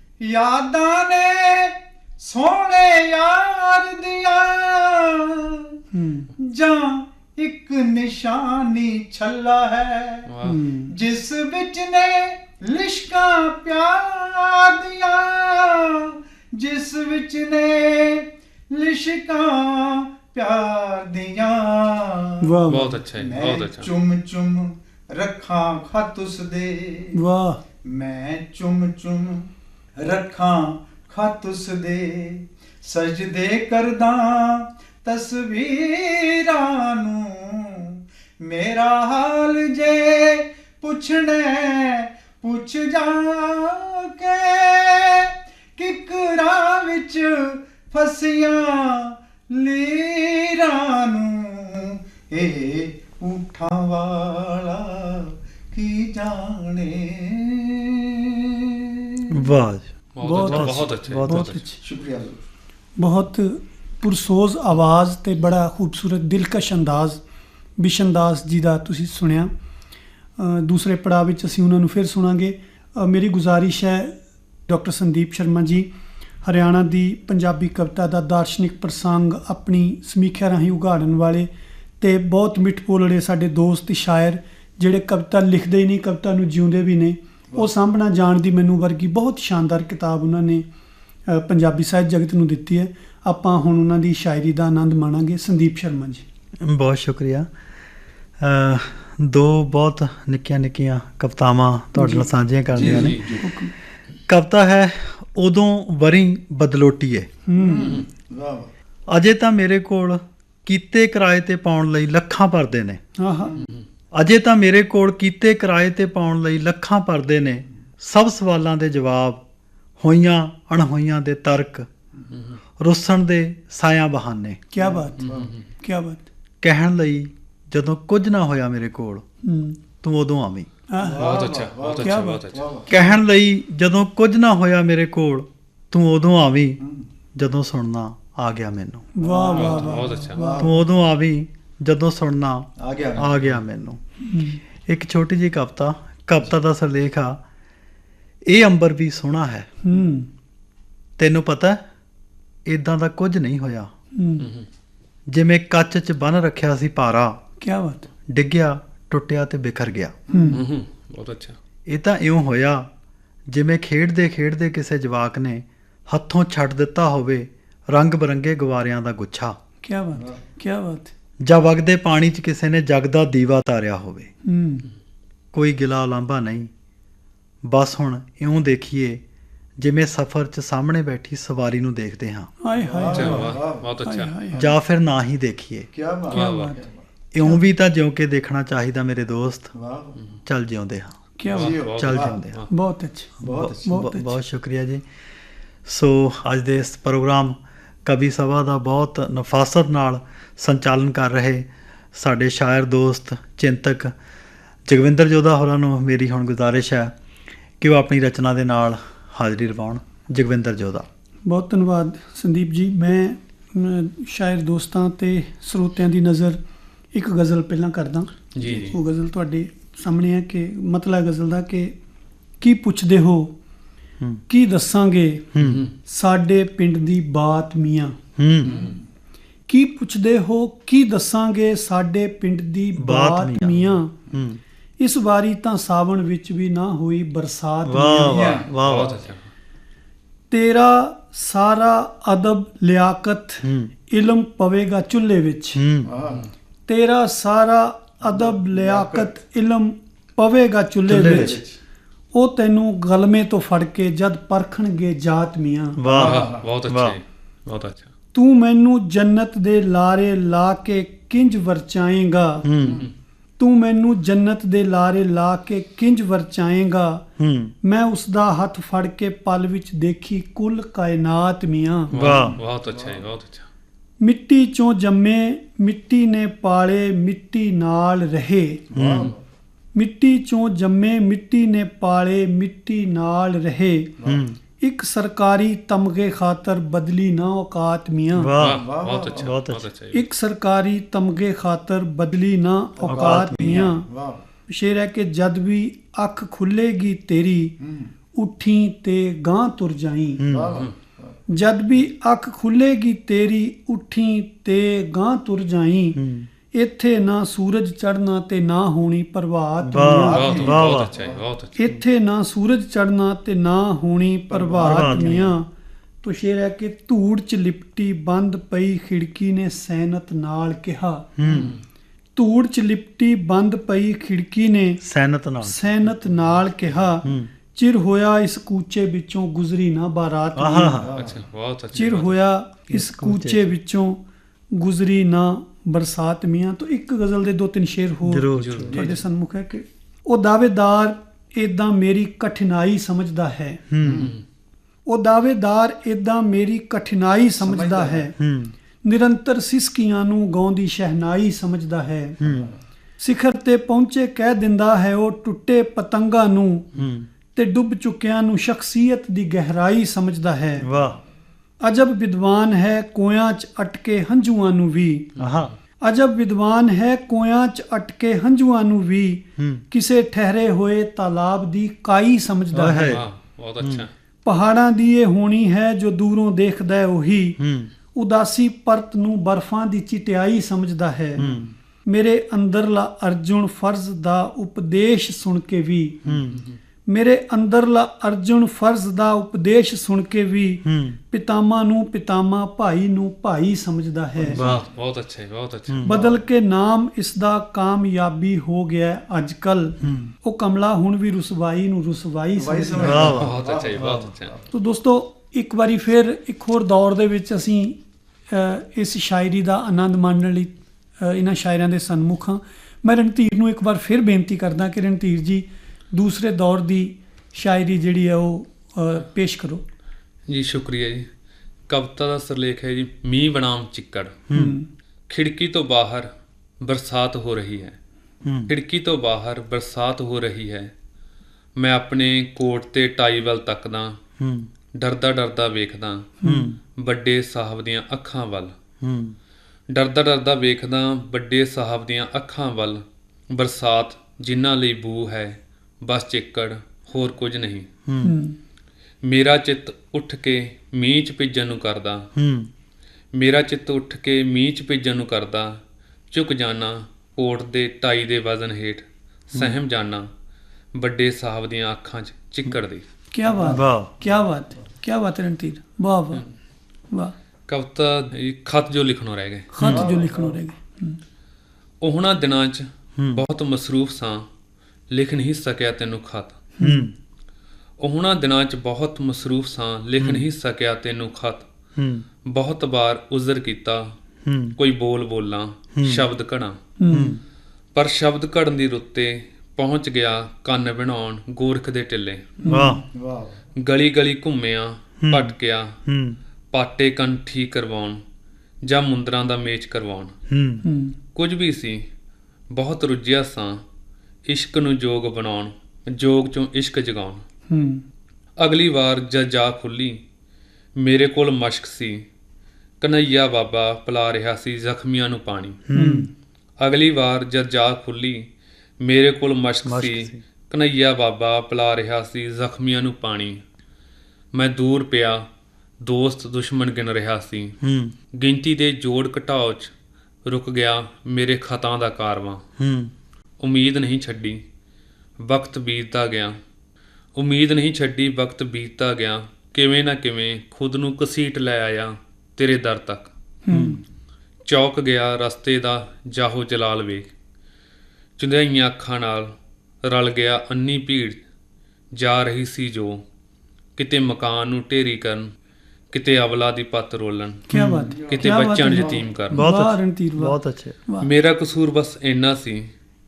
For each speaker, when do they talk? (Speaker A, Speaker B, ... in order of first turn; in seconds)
Speaker A: 0.2-5.7, 6.4-10.3, 10.9-22.6, 23.1-27.2, 27.8-58.5, 61.8-62.4, 102.7-103.5, 107.6-108.7, 124.8-125.5, 131.0-133.1, 139.2-140.8, 142.8-143.5, 160.3-160.6, 182.8-183.9, 185.9-187.0, 189.7-190.2, 191.5-192.4, 193.4-194.0, 228.6-229.0, 238.2-239.1, 246.0-246.5, 248.2-249.4, 251.1-251.8, 256.1-256.6, 272.2-273.2, 278.9-279.4, 284.2-284.4, 288.7-289.5, 293.0-294.4, 297.8-298.1, 300.4-301.4, 310.2-311.4, 314.5-315.5, 331.0-331.4, 338.9-339.1, 344.0-344.3, 347.6-348.3, 352.4-352.8, 381.4-381.6, 394.4-394.7, 396.1-396.4, 402.6-404.6, 463.5-463.8, 469.9-470.6, 493.1-493.6, 558.1-559.2
Speaker B: 5.9-6.3, 10.4-10.9, 22.4-22.9, 27.1-27.6, 60.2-61.8, 63.0-67.2, 67.8-69.5, 70.4-74.1, 74.7-75.9, 76.4-81.5, 82.0-90.6, 91.3-96.2, 101.9-102.3, 102.8-103.7, 107.5-108.0, 113.2-113.5, 124.7-125.2, 125.8-126.2, 129.4-129.8, 130.9-131.3, 132.0-132.4, 139.1-140.7, 144.2-144.6, 149.8-150.3, 154.1-154.5, 157.6-158.1, 160.3-160.6, 169.8-171.1, 174.4-174.8, 182.6-184.6, 186.3-186.8, 191.4-191.8, 192.7-194.3, 211.5-216.6, 217.1-222.0, 222.6-223.5, 224.5-225.5, 226.1-228.2, 229.7-234.1, 235.0-238.4, 240.5-245.8, 246.9-251.6, 252.3-256.0, 258.3-262.6, 263.6-267.2, 267.8-272.1, 274.2-278.8, 279.9-284.1, 284.8-288.5, 290.1-294.1, 294.7-297.7, 298.3-300.4, 301.5-306.2, 306.7-310.4, 311.8-315.7, 316.2-321.7, 322.4-325.0, 325.6-331.0, 331.9-343.8, 345.1-348.3, 349.0-352.4, 353.2-356.9, 357.5-360.9, 361.8-365.3, 366.0-373.1, 374.4-377.6, 378.1-381.4, 382.1-386.2, 387.1-394.6, 396.1-403.4, 404.7-419.8, 424.5-424.9, 436.4-436.7, 448.2-448.6, 463.3-466.4, 469.7-471.2, 476.8-477.1, 487.0-487.4, 492.6-493.0, 500.8-501.1, 507.7-508.0, 515.9-516.3, 543.6-544.0, 557.7-561.3
Speaker C: 10.3-10.6, 22.7-23.9, 60.1-61.6, 102.8-103.3, 113.6-113.8, 122.3-122.6, 125.2-125.6, 131.2-132.9, 139.5-140.4, 154.4-154.6, 160.5-161.6, 183.1-184.3, 186.3-186.8, 191.5-192.7, 218.5-218.9, 225.6-225.9, 238.6-239.5, 256.1-258.1, 262.8-263.1, 272.1-273.7, 288.6-290.2, 310.3-311.8, 321.5-321.8, 331.1-332.4, 338.5-339.1, 344.0-344.4, 365.4-365.7, 373.0-374.1, 386.3-386.8, 394.6-396.0, 403.3-404.5, 420.5-421.3, 421.9-424.4, 425.3-426.3, 426.8-428.0, 428.7-430.9, 431.8-434.2, 434.9-436.4, 437.0-438.7, 439.9-447.9, 449.2-452.3, 453.3-455.8, 456.3-460.3, 460.9-463.0, 467.7-469.7, 472.0-474.4, 475.1-476.6, 478.0-481.7, 482.4-484.1, 484.8-486.8, 487.9-492.5, 493.8-495.9, 496.7-498.2, 498.8-500.3, 501.3-502.0, 502.7-503.8, 504.5-507.4, 508.6-510.2, 511.0-512.2, 513.0-515.8, 516.8-518.5, 519.0-523.6, 524.5-525.5, 526.0-527.8, 528.3-529.9, 530.5-532.6, 533.6-534.6, 535.4-536.5, 537.3-543.3, 544.6-547.3, 548.4-549.5, 550.0-551.4, 552.1-553.2, 554.0-555.5, 556.1-557.6, 558.3-559.6, 561.2-562.9
Speaker D: 59.3-61.5, 96.6-97.5, 98.4-103.3, 104.3-107.3, 109.1-113.0, 114.1-119.4, 120.0-121.9, 122.8-124.6, 126.6-129.2, 130.0-130.7, 132.9-136.8, 137.3-139.1, 140.6-144.0, 144.8-147.4, 148.5-149.7, 151.2-151.8, 152.7-153.9, 155.3-157.4, 158.3-160.1, 161.9-162.9, 163.5-169.6, 171.4-174.3, 175.5-176.7, 177.6-179.2, 179.8-182.5, 184.6-185.9, 187.3-189.7, 190.4-191.2, 191.9-192.6, 193.4-195.0, 195.8-204.1, 204.9-207.1, 207.8-211.1, 225.5-225.8, 228.4-228.9, 233.0-234.6, 237.8-239.1, 243.6-243.9, 245.7-246.1, 251.1-251.6, 256.0-257.2, 262.6-263.0, 267.4-267.7, 272.1-272.6, 278.9-279.3, 284.2-284.6, 288.4-289.9, 300.4-300.8, 306.1-306.5, 309.8-311.1, 314.8-315.5, 321.4-321.7, 325.0-326.0, 327.2-327.5, 330.5-331.1, 332.9-333.7, 338.2-339.0, 343.9-344.3, 348.4-348.7, 352.4-352.7, 356.9-357.3, 360.8-361.2, 365.4-365.7, 369.6-369.8, 372.7-373.2, 373.8-374.1, 377.6-377.9, 381.4-381.7, 386.2-386.6, 390.8-391.2, 394.6-394.9, 395.9-396.2, 400.0-400.3, 403.0-404.3, 424.5-424.7, 428.4-428.7, 434.4-434.7, 436.4-436.8, 439.0-439.4, 448.1-448.3, 452.4-452.7, 463.6-464.1, 469.8-470.1, 473.2-473.4, 476.8-477.1, 480.2-480.4, 482.0-482.2, 484.4-484.8, 485.9-486.3, 487.1-487.4, 492.7-493.0, 495.2-495.5, 496.1-496.4, 500.5-500.8, 515.9-516.3, 519.8-520.4, 527.8-528.1, 532.8-533.1, 543.7-544.0, 557.7-558.1, 559.5-561.0